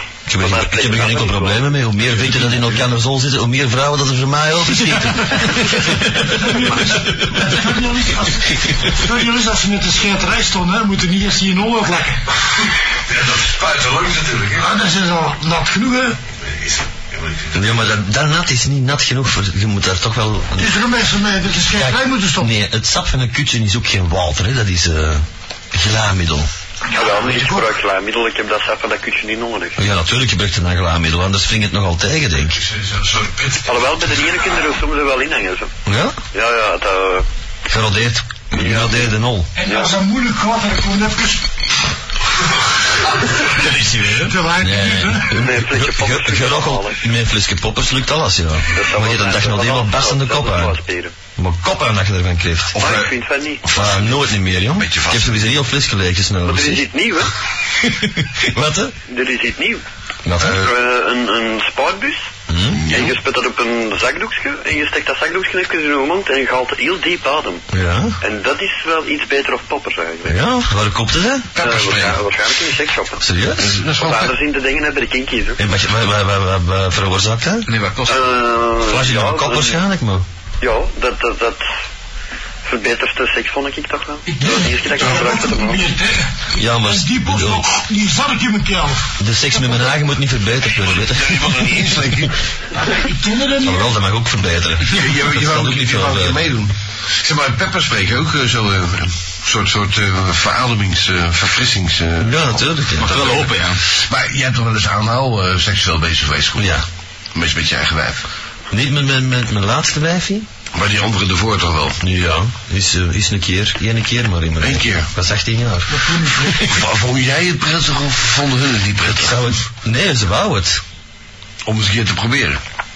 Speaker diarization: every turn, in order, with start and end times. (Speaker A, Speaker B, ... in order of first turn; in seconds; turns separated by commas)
Speaker A: 0.3-7.3, Speaker B: 0.4-1.8, Speaker C: 6.1-12.2, Speaker D: 13.1-14.7, Speaker C: 14.6-16.2, Speaker D: 16.4-17.6, Speaker A: 17.5-20.7, Speaker C: 20.5-22.5, Speaker A: 21.7-26.5, Speaker B: 26.9-29.8, Speaker C: 26.9-27.8, Speaker A: 29.8-32.6, Speaker D: 32.6-34.0, Speaker B: 33.6-35.7, Speaker A: 35.9-36.2, Speaker B: 36.3-37.2, Speaker A: 37.7-39.5, Speaker B: 38.5-39.1, Speaker C: 39.5-41.5, Speaker B: 39.6-40.0, Speaker A: 43.6-50.8, Speaker E: 43.7-45.1, Speaker C: 44.2-45.4, Speaker B: 45.4-47.0, Speaker B: 48.7-51.1, Speaker A: 51.4-52.8, Speaker D: 52.7-53.1, Speaker B: 52.8-53.7, Speaker D: 53.6-55.5, Speaker A: 53.6-56.9, Speaker B: 56.5-57.3, Speaker A: 57.8-58.9, Speaker B: 59.1-59.8, Speaker A: 60.2-60.6, Speaker D: 60.4-60.7, Speaker B: 60.5-62.3, Speaker A: 62.5-62.9, Speaker D: 62.7-63.2, Speaker B: 62.9-67.6, Speaker A: 67.7-68.2, Speaker B: 68.2-70.4, Speaker A: 70.2-71.6, Speaker D: 71.5-72.2, Speaker B: 71.6-73.2, Speaker A: 73.2-73.8, Speaker D: 73.6-74.3, Speaker B: 73.9-75.6, Speaker A: 75.6-77.7, Speaker E: 77.7-78.4, Speaker B: 78.1-79.8, Speaker A: 78.8-80.2, Speaker B: 80.6-81.6, Speaker B: 82.6-85.9, Speaker C: 84.2-89.8, Speaker A: 86.5-87.6, Speaker A: 89.2-91.8, Speaker D: 90.9-92.3, Speaker C: 92.8-93.9, Speaker A: 93.6-96.4, Speaker D: 94.9-106.8, Speaker A: 102.2-103.4, Speaker E: 103.0-103.8, Speaker A: 106.6-106.8, Speaker D: 107.3-108.2, Speaker A: 108.7-110.5, Speaker D: 110.7-112.0, Speaker A: 112.0-116.5, Speaker D: 114.6-115.1, Speaker C: 115.9-116.8, Speaker D: 116.6-119.5, Speaker A: 119.1-120.8, Speaker D: 121.6-122.6